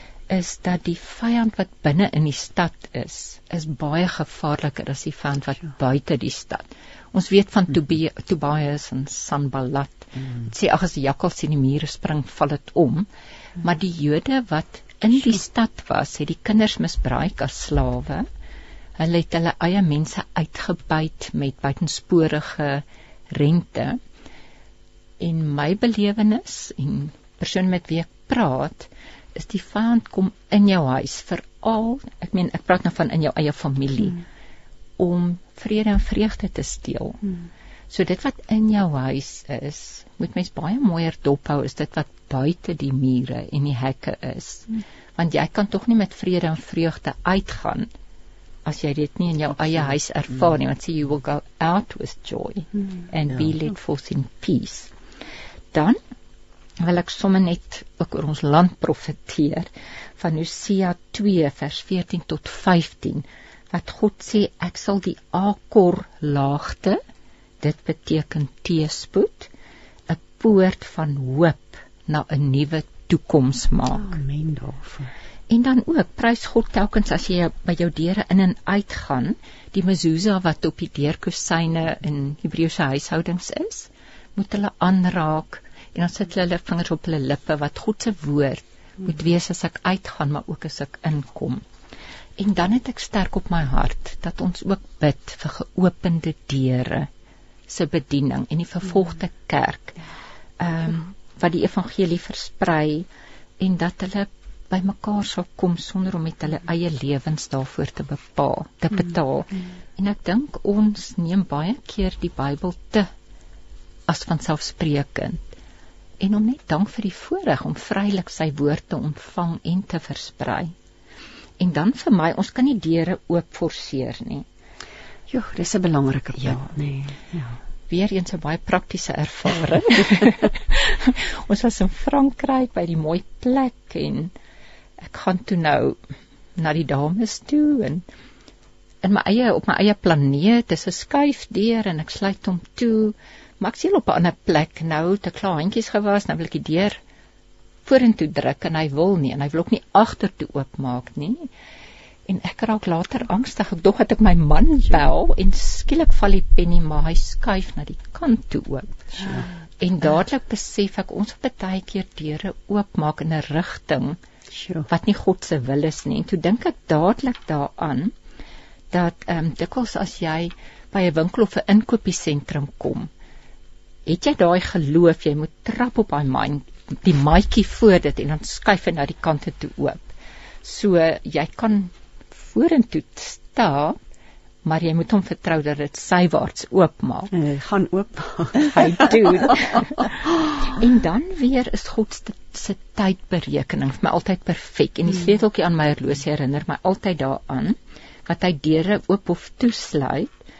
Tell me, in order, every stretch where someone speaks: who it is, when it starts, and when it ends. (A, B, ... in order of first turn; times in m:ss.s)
0:00.3-0:13.1 A
0:13.6-0:18.2 A
0:19.0-0:24.0 A
0:25.2-0:34.2 A
0:35.0-0:37.2 A
0:37.9-0:47.9 A
0:48.6-0:54.9 A
0:55.7-0:56.0 A
0:56.8-1:07.0 A
1:07.6-1:09.5 A
1:10.1-1:14.2 A
1:13.9-1:15.1 B
1:15.5-1:31.6 A
1:32.4-1:37.1 A
1:37.7-1:40.0 A
1:40.6-1:43.1 A
1:43.6-1:53.1 A
1:54.1-1:55.4 A
1:56.2-2:00.7 A
2:01.6-2:04.4 A
2:05.3-2:07.6 B
2:07.9-2:14.3 A
2:15.0-2:16.0 A
2:16.6-2:18.0 A
2:19.0-2:27.0 A
2:27.8-2:31.5 A
2:32.3-2:44.2 A
2:44.5-2:44.9 B
2:44.9-2:48.1 A
2:48.9-2:53.1 A
2:54.0-3:00.0 A
3:00.6-3:04.0 A
3:04.6-3:07.3 A
3:07.3-3:09.8 B
3:08.6-3:20.3 A